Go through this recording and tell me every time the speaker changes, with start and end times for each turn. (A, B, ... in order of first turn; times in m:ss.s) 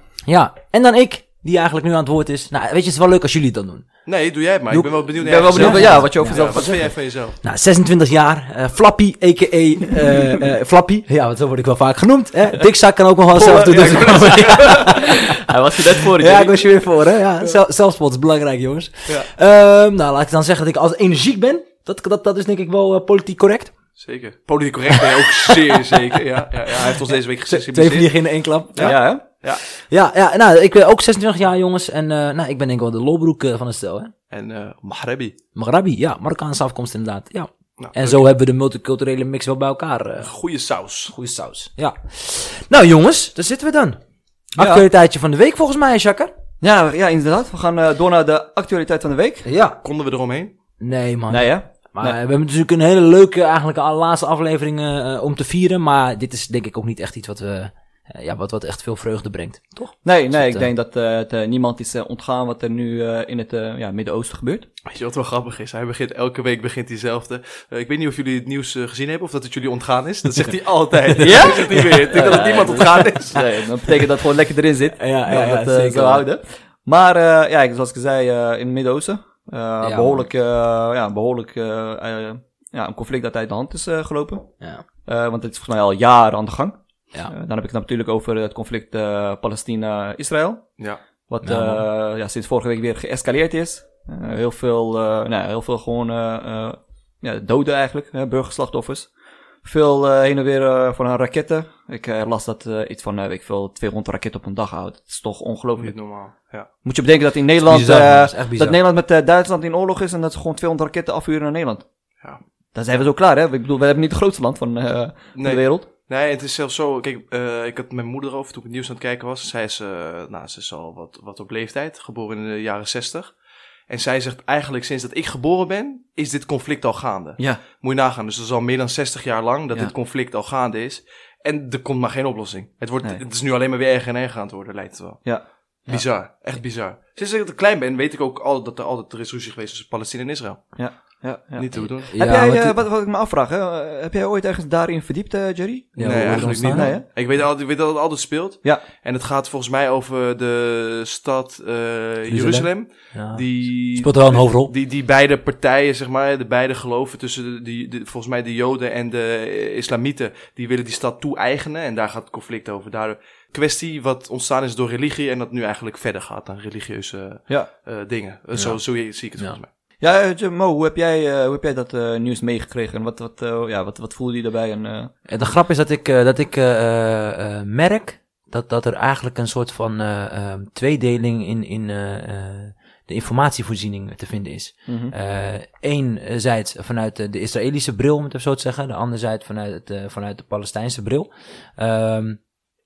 0:00.2-0:03.8 A
0:04.0-0:07.4 B
0:04.7-0:06.6 A
0:05.2-0:06.9 C
0:07.4-0:15.4 A
0:13.3-0:16.8 C
0:13.7-0:15.0 B
0:16.1-0:23.7 A
0:24.0-0:28.1 B
0:27.5-0:29.4 A
0:28.7-0:29.6 B
0:28.8-0:29.2 C
0:29.9-0:34.1 A
0:34.3-0:35.4 B
0:35.5-0:40.3 A
0:37.8-0:38.2 B
0:40.2-0:41.1 B
0:41.1-0:44.0 A
0:44.6-0:46.3 A
0:44.6-0:44.8 C
0:46.6-0:49.4 C
0:49.4-0:49.8 A
0:49.8-0:50.5 B
0:50.8-1:00.7 A
0:51.3-0:52.2 C
1:00.0-1:04.7 C
1:04.9-1:13.6 B
1:11.1-1:11.7 A
1:11.2-1:24.5 C
1:15.0-1:16.2 A
1:19.8-1:20.3 A
1:25.0-1:30.6 C
1:31.3-1:39.1 C
1:31.4-1:31.9 A
1:39.6-1:46.0 C
1:45.8-1:46.7 B
1:46.8-1:51.8 C
1:47.6-1:48.8 A
1:52.7-1:55.8 C
1:55.4-2:03.4 B
2:03.9-2:15.3 B
2:15.8-2:20.7 B
2:20.8-2:27.0 C
2:21.5-2:22.1 B
2:22.1-2:22.8 A
2:26.0-2:27.0 A
2:26.0-2:49.7 B
2:32.3-2:34.7 A
2:50.0-2:55.1 C
2:55.3-3:12.4 A
3:04.9-3:05.1 C